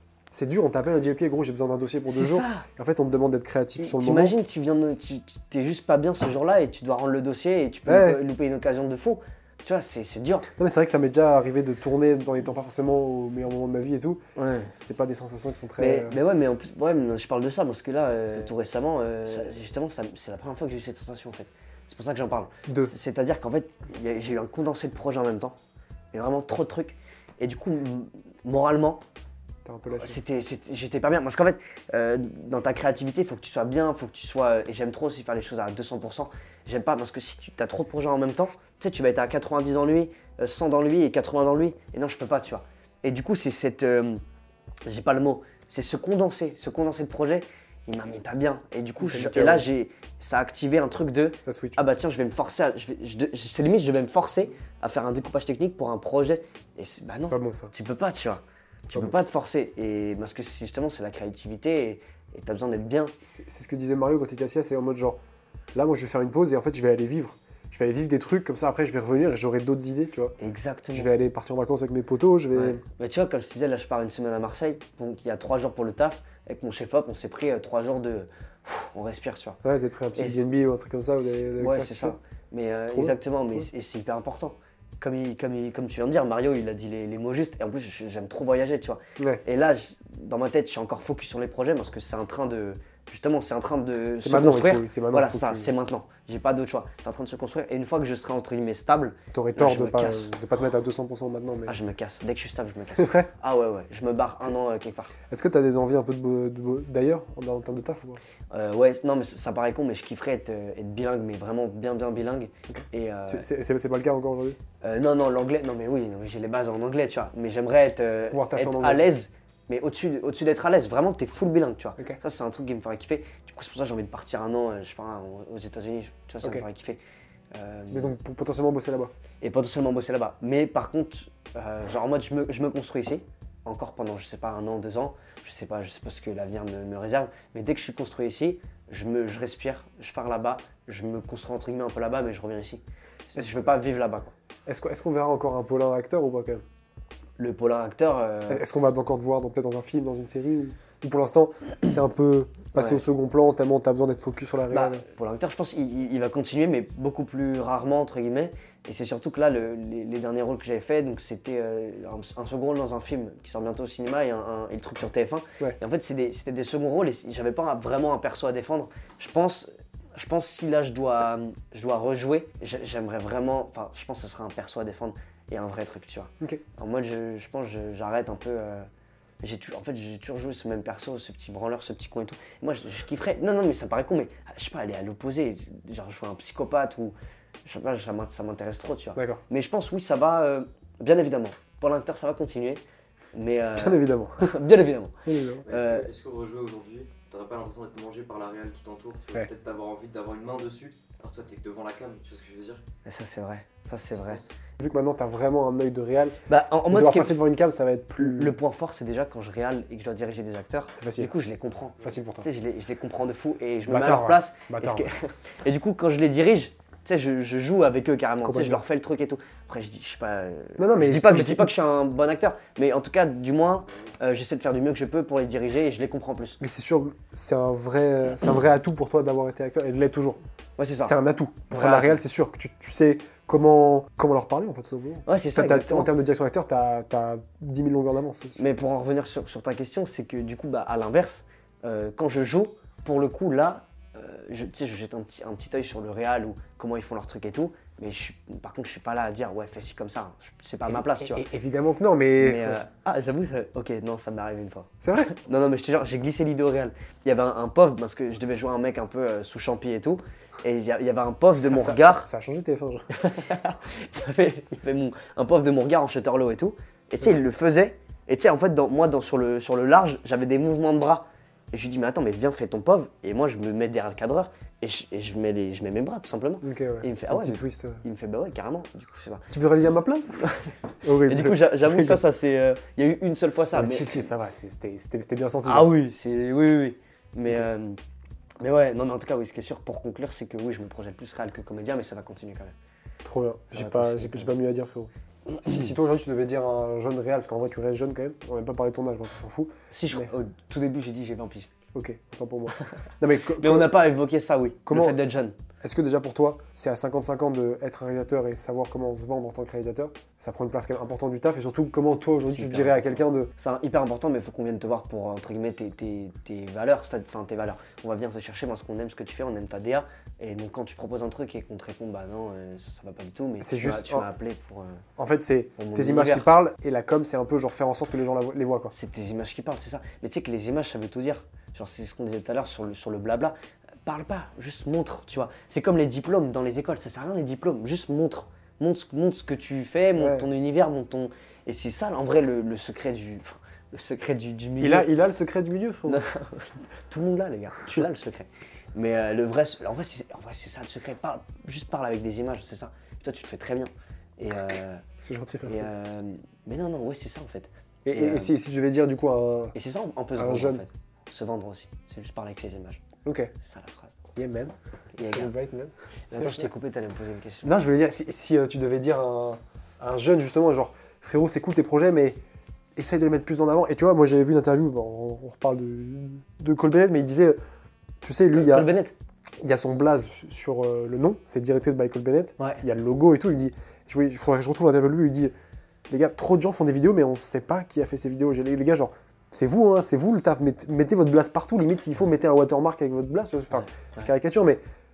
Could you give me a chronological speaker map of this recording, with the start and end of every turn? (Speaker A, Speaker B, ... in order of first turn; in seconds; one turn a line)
Speaker A: 0.3-4.3
Speaker B: 2.1-2.6
Speaker B: 3.8-10.5
Speaker A: 7.9-8.2
Speaker A: 10.6-14.2
Speaker B: 14.4-14.7
Speaker A: 14.8-16.2
Speaker B: 15.8-25.6
Speaker A: 22.7-22.9
Speaker B: 26.1-29.0
Speaker A: 29.6-30.2
Speaker B: 29.9-44.2
Speaker B: 44.9-63.1
Speaker A: 49.0-49.7
Speaker A: 51.5-51.8
Speaker A: 57.3-57.7
Speaker A: 63.2-65.2
Speaker A: 65.7-70.4
Speaker B: 70.4-71.1
Speaker A: 70.9-72.8
Speaker B: 72.5-79.6
Speaker A: 79.6-82.2
Speaker B: 80.2-80.5
Speaker B: 81.2-100.3
Speaker A: 82.9-83.6
Speaker A: 89.2-89.4
Speaker A: 94.2-95.7
Speaker A: 99.3-101.8
Speaker B: 101.7-105.1
Speaker A: 102.9-103.3
Speaker A: 105.3-108.2
Speaker B: 108.5-113.4
Speaker A: 112.7-114.6
Speaker B: 114.8-127.0
Speaker A: 118.3-119.1
Speaker B: 127.5-128.1
Speaker A: 127.9-129.1
Speaker B: 129.4-144.3
Speaker A: 143.4-143.8
Speaker A: 144.7-146.6
Speaker B: 147.4-148.6
Speaker A: 148.5-155.1
Speaker B: 152.7-153.0
Speaker B: 154.7-178.9
Speaker B: 179.4-192.8
Speaker A: 189.2-189.4
Speaker B: 193.3-196.1
Speaker A: 193.8-194.5
Speaker A: 195.2-195.7
Speaker C: 195.6-202.8
Speaker B: 203.1-204.4
Speaker A: 204.8-206.4
Speaker B: 206.5-207.5
Speaker A: 206.9-208.6
Speaker B: 208.2-226.6
Speaker A: 210.9-211.3
Speaker A: 212.0-212.5
Speaker A: 213.9-215.1
Speaker A: 218.4-218.8
Speaker A: 220.8-221.7
Speaker A: 226.6-230.4
Speaker B: 230.8-231.2
Speaker A: 231.0-238.6
Speaker B: 231.7-232.2
Speaker B: 235.3-236.1
Speaker B: 238.6-251.4
Speaker A: 250.9-252.8
Speaker B: 252.4-262.3
Speaker A: 255.0-255.3
Speaker A: 261.6-263.2
Speaker B: 263.1-279.5
Speaker A: 276.6-278.0
Speaker A: 279.5-282.2
Speaker B: 280.4-284.2
Speaker A: 283.7-285.9
Speaker B: 285.6-288.0
Speaker B: 288.6-292.7
Speaker A: 293.2-295.1
Speaker B: 293.7-294.5
Speaker B: 295.5-295.9
Speaker A: 295.6-300.3
Speaker B: 299.9-301.7
Speaker A: 301.9-303.9
Speaker B: 303.6-305.6
Speaker A: 304.9-305.2
Speaker A: 305.8-313.5
Speaker B: 312.4-325.0
Speaker A: 323.6-324.3
Speaker A: 325.2-328.9
Speaker B: 325.8-326.5
Speaker B: 328.9-345.1
Speaker A: 340.2-340.4
Speaker A: 344.8-346.3
Speaker B: 346.1-355.0
Speaker A: 355.2-355.9
Speaker B: 355.6-358.5
Speaker A: 358.1-359.8
Speaker B: 359.7-363.1
Speaker A: 360.4-360.8
Speaker A: 363.2-363.5
Speaker B: 363.6-364.2
Speaker A: 364.4-366.6
Speaker B: 365.1-365.5
Speaker B: 366.3-367.8
Speaker A: 367.6-372.4
Speaker A: 373.0-377.6
Speaker A: 378.2-378.9
Speaker B: 378.5-379.1
Speaker A: 379.6-385.5
Speaker B: 382.6-382.8
Speaker A: 386.1-394.8
Speaker B: 394.0-394.3